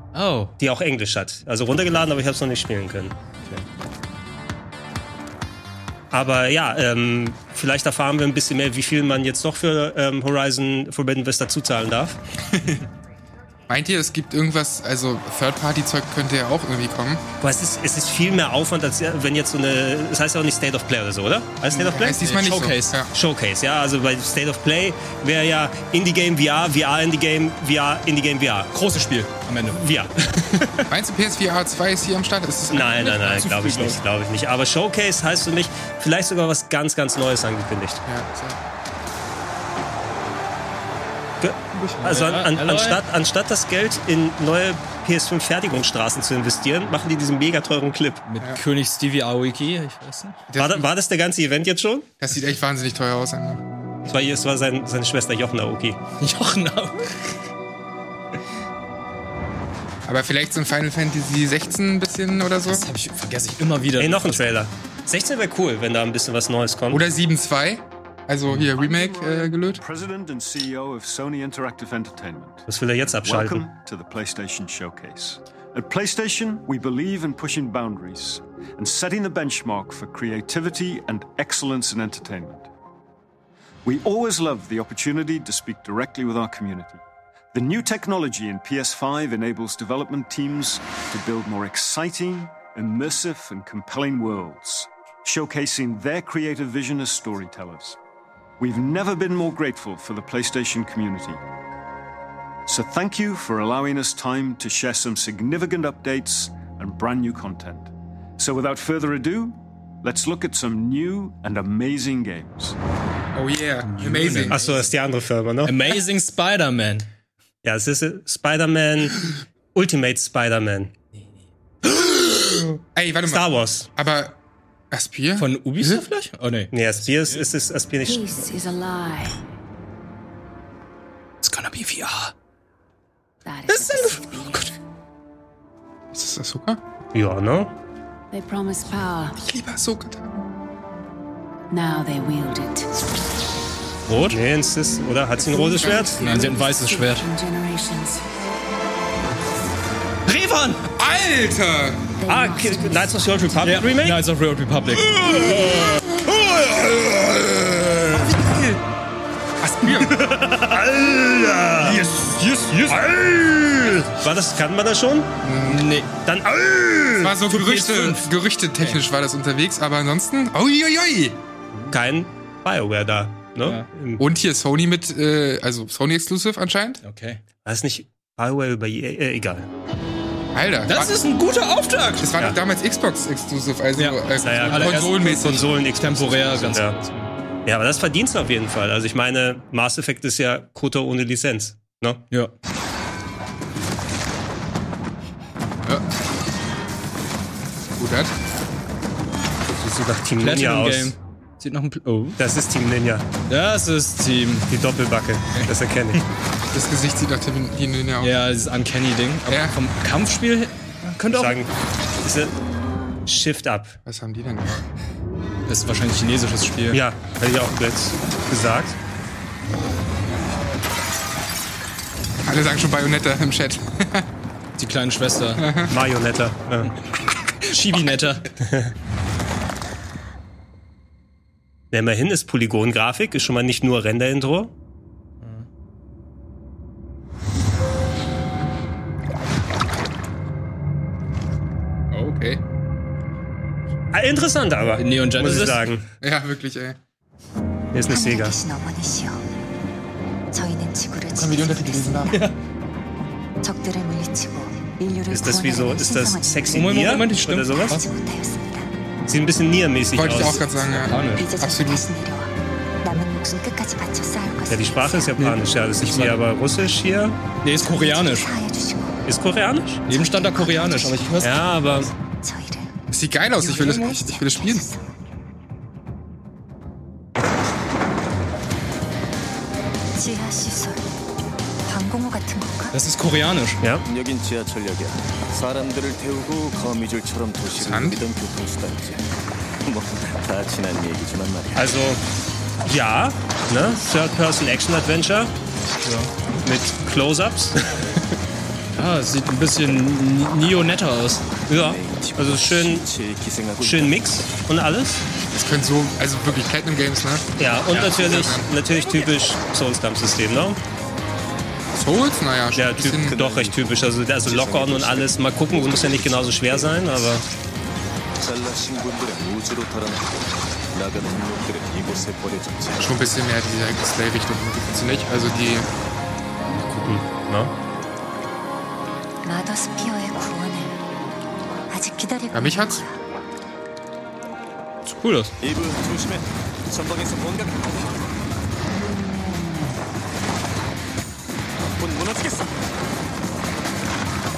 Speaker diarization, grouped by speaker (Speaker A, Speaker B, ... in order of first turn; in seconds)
Speaker A: 0.1-0.5, 22.2-23.0, 28.7-29.8, 33.0-34.0, 41.7-43.0, 48.3-50.4, 56.2-57.1, 62.7-64.5, 113.9-114.8, 115.7-117.1, 125.4-127.5, 131.4-132.3, 133.7-134.7, 144.1-144.4, 146.2-147.3, 150.3-150.8, 153.6-158.3, 159.8-164.1, 165.7-166.1, 167.2-168.3, 168.8-169.0, 177.0-177.4, 180.9-182.3, 184.0-187.3, 200.4-202.4, 203.5-204.7, 205.6-206.2, 208.2-211.6, 215.7-217.0, 224.8-225.7, 227.6-228.5, 235.4-235.7, 245.0-245.9, 252.3-252.6, 256.7-258.1, 260.8-261.5, 265.4-266.4, 267.6-268.5, 270.1-272.1, 273.6-274.2, 282.9-283.8, 296.0-296.3, 298.9-301.5, 335.1-335.5
Speaker B: 0.6-3.1, 6.1-12.2, 17.4-22.2, 23.1-28.7, 29.7-30.7, 32.7-38.0, 41.4-48.2, 50.6-52.1, 54.1-56.0, 64.0-67.0, 72.7-73.7, 114.5-115.9, 117.6-120.9, 123.3-123.9, 126.7-128.3, 137.1-137.7, 144.3-146.2, 152.3-154.2, 164.2-165.3, 166.3-167.3, 171.9-174.2, 177.7-179.7, 184.4-187.0, 187.7-192.2, 199.8-201.1, 202.4-203.3, 204.7-206.2, 211.3-211.7, 212.2-212.5, 213.3-214.0, 216.9-219.0, 225.9-226.9, 228.7-228.9, 231.9-234.7, 244.1-246.0, 247.9-248.6, 255.3-258.0, 259.3-260.7, 264.7-267.4, 269.2-270.0, 271.4-272.1, 291.8-292.2, 292.8-295.5, 296.6-298.0, 301.7-303.1, 303.8-305.2, 307.6-310.8, 312.8-317.4, 326.8-327.7
Speaker C: 12.5-12.8, 13.7-17.2, 21.7-23.1, 30.9-33.1, 38.1-38.6, 50.5-50.9, 52.2-53.6, 60.0-62.9, 66.9-69.8, 113.3-114.6, 123.0-124.4, 124.9-126.0, 136.1-136.8, 139.4-140.5, 145.8-146.1, 151.0-152.0, 158.1-158.8, 159.6-160.2, 161.8-162.3, 165.4-165.9, 167.2-171.4, 174.2-177.0, 180.5-181.2, 182.2-185.7, 198.0-198.3, 206.7-208.4, 209.5-209.7, 214.1-214.9, 222.4-224.3, 225.6-225.9, 242.1-242.6, 246.2-247.0, 251.3-252.4, 260.1-262.1, 273.1-274.9, 287.8-288.2, 305.5-308.7, 311.9-313.4, 323.0-325.9, 332.5-333.0
Speaker D: 68.7-72.7, 73.2-82.7, 83.8-87.0, 87.5-98.0, 98.6-101.4, 102.7-112.8
Speaker E: 128.0-129.3, 133.4-134.7, 138.3-139.4, 141.7-143.0, 145.4-148.3, 152.2-153.5
Speaker F: 248.0-249.4, 250.5-252.3, 253.6-256.9, 257.9-258.9, 261.3-262.5, 263.0-265.4, 267.7-269.3, 270.1-271.4, 272.4-272.9, 273.7-275.1, 280.2-281.1, 281.9-283.0, 329.4-331.0, 331.9-333.2
Speaker G: 284.1-289.2, 289.9-291.9, 301.7-304.2, 313.2-313.8, 314.4-317.2, 318.4-320.4, 320.9-323.1, 335.6-337.9, 342.0-342.7